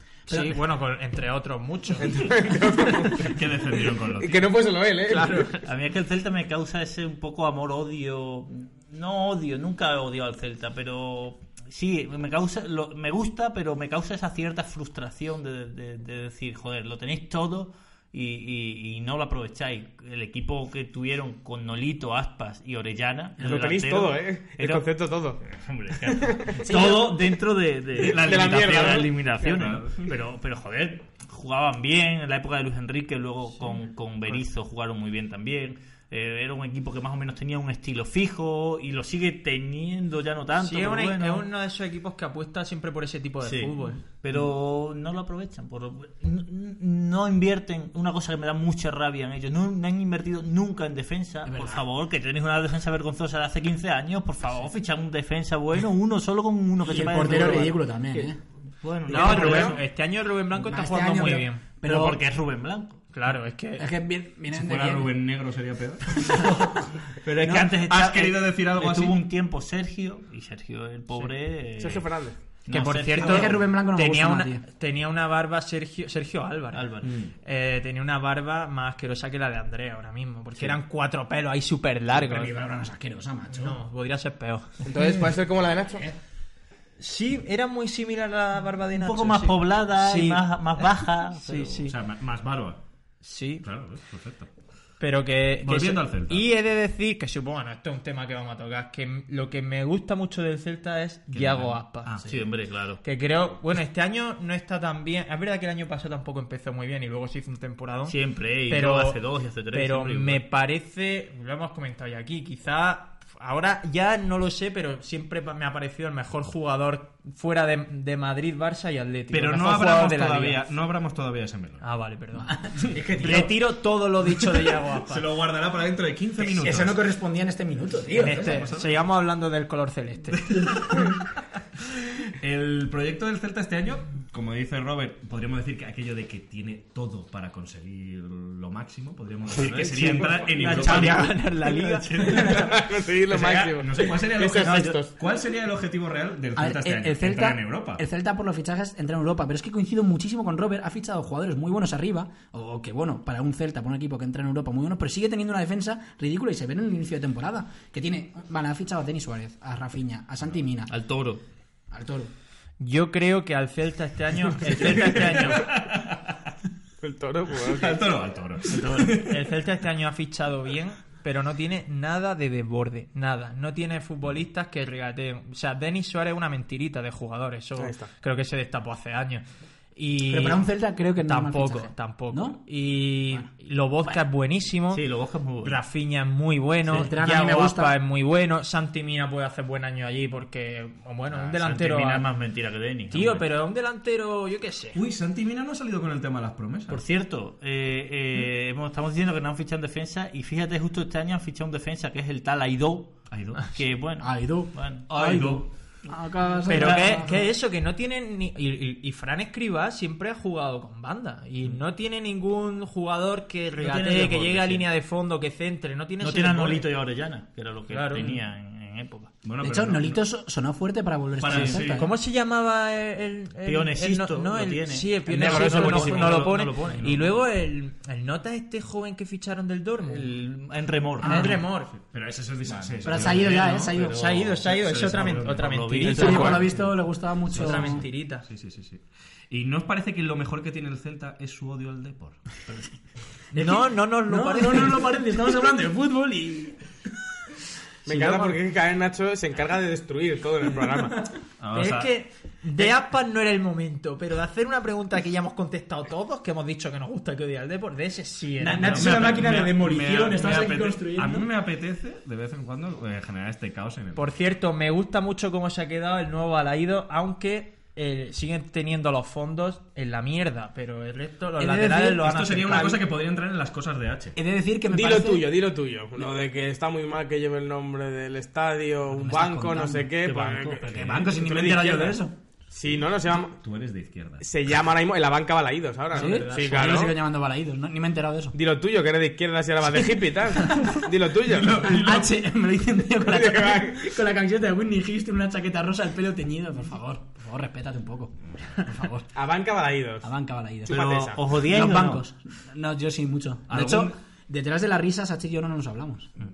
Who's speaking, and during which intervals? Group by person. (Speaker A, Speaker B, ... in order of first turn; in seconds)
Speaker A: 0.3-0.6, 51.4-51.8, 56.8-58.4, 60.5-62.2, 63.8-65.1, 73.1-74.6, 82.1-83.8, 122.5-123.5, 126.4-128.7, 142.2-142.5, 146.6-160.9, 161.9-162.3, 180.3-182.6, 186.8-187.9, 204.2-207.4, 219.6-222.1, 231.2-231.6, 233.0-234.2, 236.0-238.0, 243.6-246.8, 248.1-248.5, 258.6-261.5, 271.6-272.2, 274.4-275.5, 279.1-280.1, 280.8-282.3, 286.1-288.6, 290.6-290.9, 291.7-299.3, 300.2-306.4
Speaker B: 0.3-2.1, 5.1-5.5, 40.6-44.0, 59.1-61.6, 63.1-63.9, 72.7-76.8, 77.4-82.5, 83.5-84.8, 87.0-91.9, 93.2-93.6, 95.0-102.2, 103.0-108.2, 108.7-109.2, 109.7-120.6, 121.8-122.5, 123.2-125.2, 128.2-130.7, 140.4-142.4, 162.8-165.7, 168.7-179.4, 179.9-180.6, 181.2-185.0, 185.6-192.3, 193.1-195.0, 206.7-216.9, 217.9-218.3, 221.9-230.3, 231.2-231.9, 234.0-236.6, 237.5-238.4, 243.5-245.0, 251.7-259.5, 264.1-273.0, 286.5-286.7
Speaker C: 2.0-3.4, 4.1-5.5, 23.4-25.4, 26.0-27.3, 28.0-29.5, 59.1-59.8, 71.8-72.4, 84.8-86.0, 139.7-140.3, 142.4-145.1, 167.0-168.2, 177.8-178.1, 248.1-251.2, 274.9-282.2, 282.7-283.6, 284.4-287.1, 288.5-291.9, 293.2-294.1, 299.3-300.3, 300.8-301.4
Speaker D: 3.2-4.5, 29.5-30.1, 64.5-66.4, 67.7-69.2, 77.0-77.3, 91.8-92.8, 93.6-94.5, 95.6-96.5, 101.3-102.3, 119.3-121.8, 122.9-123.4, 125.0-127.0, 128.2-129.0, 130.5-131.2, 132.4-141.4, 143.3-148.0, 164.9-166.4, 167.6-169.3, 194.9-197.0, 203.3-203.7, 205.1-205.7, 219.4-220.2, 221.4-222.1, 231.9-236.8, 237.5-242.4, 251.6-252.2, 258.8-264.3, 272.2-274.4, 281.0-281.3, 283.6-284.4, 291.5-292.3, 303.7-304.1
Speaker E: 5.6-24.9, 25.4-41.5, 43.4-59.8, 61.8-63.0, 66.5-72.0, 72.7-73.6, 76.7-77.1, 88.9-91.9, 102.2-103.0, 108.1-110.4, 140.8-142.6, 144.6-144.9, 160.9-161.4, 184.9-185.8, 191.3-193.5, 196.9-205.1, 206.7-207.2, 213.7-214.9, 216.2-219.3, 221.5-221.8, 223.6-227.4, 230.1-231.6, 232.7-233.3, 234.2-236.7, 280.2-280.8, 300.9-302.2